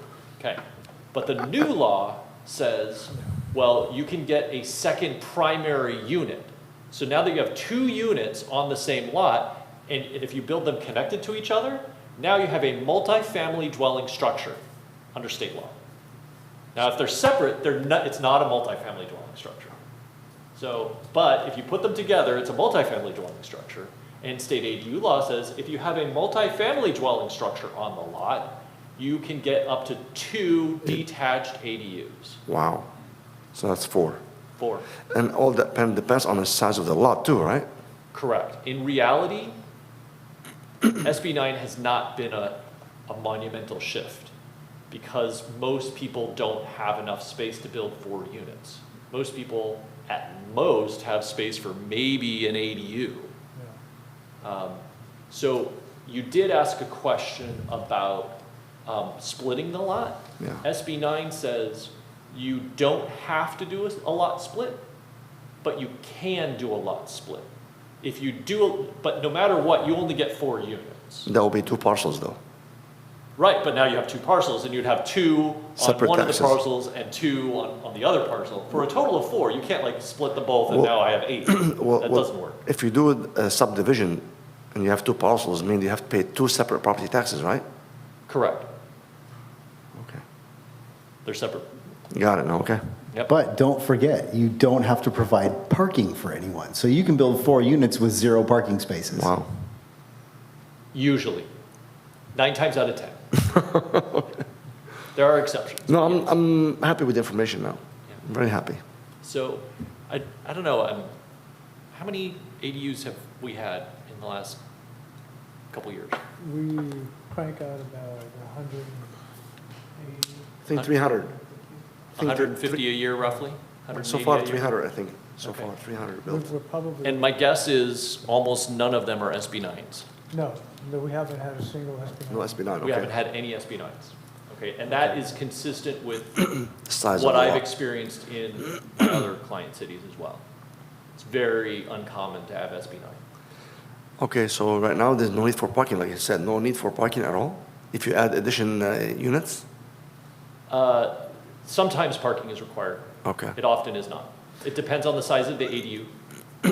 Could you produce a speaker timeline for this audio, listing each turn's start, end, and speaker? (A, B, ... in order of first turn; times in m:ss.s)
0:01.1-0:14.6 A
0:15.1-0:15.8 A
0:16.7-0:19.8 A
0:20.5-0:32.4 A
0:32.5-0:32.9 B
0:33.5-0:34.2 B
0:34.6-0:34.9 A
0:35.1-0:37.7 B
0:38.1-0:39.6 A
0:41.0-0:44.3 A
0:44.9-0:53.3 A
0:54.4-1:04.8 A
1:00.4-1:00.6 B
1:05.6-1:07.4 A
1:08.0-1:11.3 A
1:11.3-1:12.4 B
1:13.4-1:22.6 A
1:15.8-1:16.6 B
1:20.7-1:27.6 B
1:28.3-1:28.7 A
1:29.9-1:30.2 B
1:31.2-1:31.7 A
1:32.1-1:32.8 B
1:33.3-1:39.3 C
1:39.1-1:39.5 B
1:40.9-1:41.5 A
1:42.3-1:43.3 A
1:43.5-1:44.2 B
1:45.1-1:46.3 A
1:45.9-1:48.8 B
1:49.2-1:51.1 A
1:51.9-1:54.6 A
1:55.7-1:56.2 A
1:56.4-1:59.2 D
2:00.0-2:02.0 D
2:00.7-2:01.3 B
2:02.2-2:02.8 B
2:02.2-2:04.8 A
2:03.9-2:06.5 B
2:05.4-2:05.7 A
2:06.2-2:07.3 D
2:07.0-2:10.1 A
2:10.3-2:12.8 D
2:12.3-2:13.1 B
2:12.8-2:16.5 A
2:16.8-2:17.6 B
2:17.1-2:20.4 A
2:21.2-2:23.2 A
2:24.2-2:29.6 B
2:30.7-2:36.1 A
2:33.2-2:33.6 B